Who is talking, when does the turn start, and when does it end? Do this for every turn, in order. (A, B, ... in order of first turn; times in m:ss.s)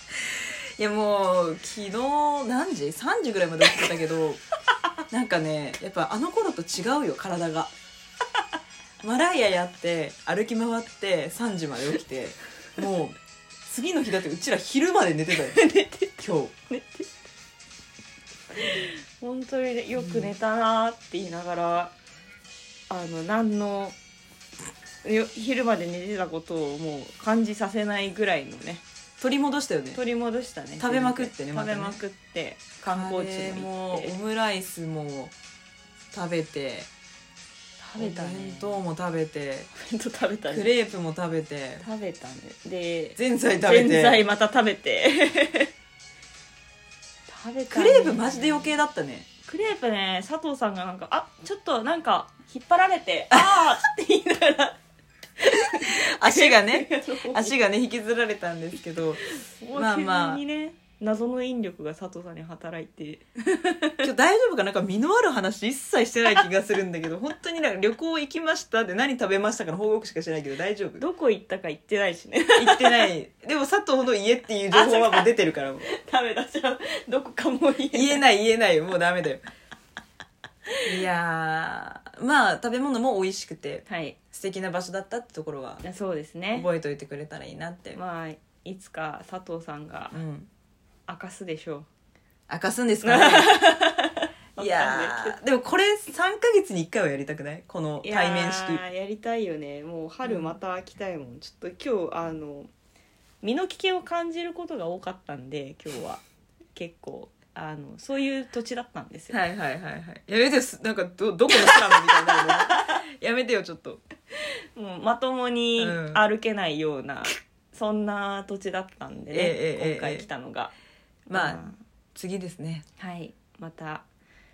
0:00.8-0:04.4 A
0:05.1-0:07.7 A
0:09.0-0:15.6 A
0:15.3-0:17.1 B
0:16.2-0:16.5 A
0:18.6-0:21.9 B
0:20.0-0:20.3 A
0:22.9-0:24.0 B
0:25.0-0:28.8 B
0:29.2-0:30.0 A
0:29.9-0:34.1 B
0:30.8-0:32.0 A
0:32.9-0:35.3 A
0:36.1-0:36.9 A
0:37.8-0:38.8 B
0:38.0-0:39.7 A
0:39.7-0:40.7 B
0:40.5-0:41.8 A
0:41.8-0:45.7 B
0:43.2-0:44.2 A
0:47.3-0:48.7 B
0:47.7-0:49.3 A
0:49.4-0:54.8 B
0:53.3-0:53.8 A
0:55.4-0:57.5 B
0:55.8-1:00.4 A
0:59.3-1:04.1 B
1:04.0-1:11.0 A
1:11.0-1:13.1 B
1:12.6-1:15.9 A
1:14.7-1:18.2 B
1:17.9-1:19.4 A
1:20.8-1:25.8 A
1:23.9-1:24.2 B
1:25.8-1:26.7 B
1:26.5-1:28.0 A
1:27.9-1:30.2 B
1:30.1-1:30.5 A
1:31.1-1:31.9 B
1:32.5-1:33.7 A
1:33.0-1:35.4 B
1:34.6-1:38.8 A
1:38.0-1:42.7 B
1:40.2-1:40.5 A
1:43.4-1:46.2 B
1:46.7-1:49.4 B
1:49.3-1:54.0 A
1:51.7-1:52.6 B
1:54.7-2:00.7 B
1:55.8-1:56.2 A
1:59.3-2:00.3 A
2:01.3-2:01.8 B
2:01.3-2:01.6 A
2:02.1-2:02.8 A
2:03.0-2:04.1 B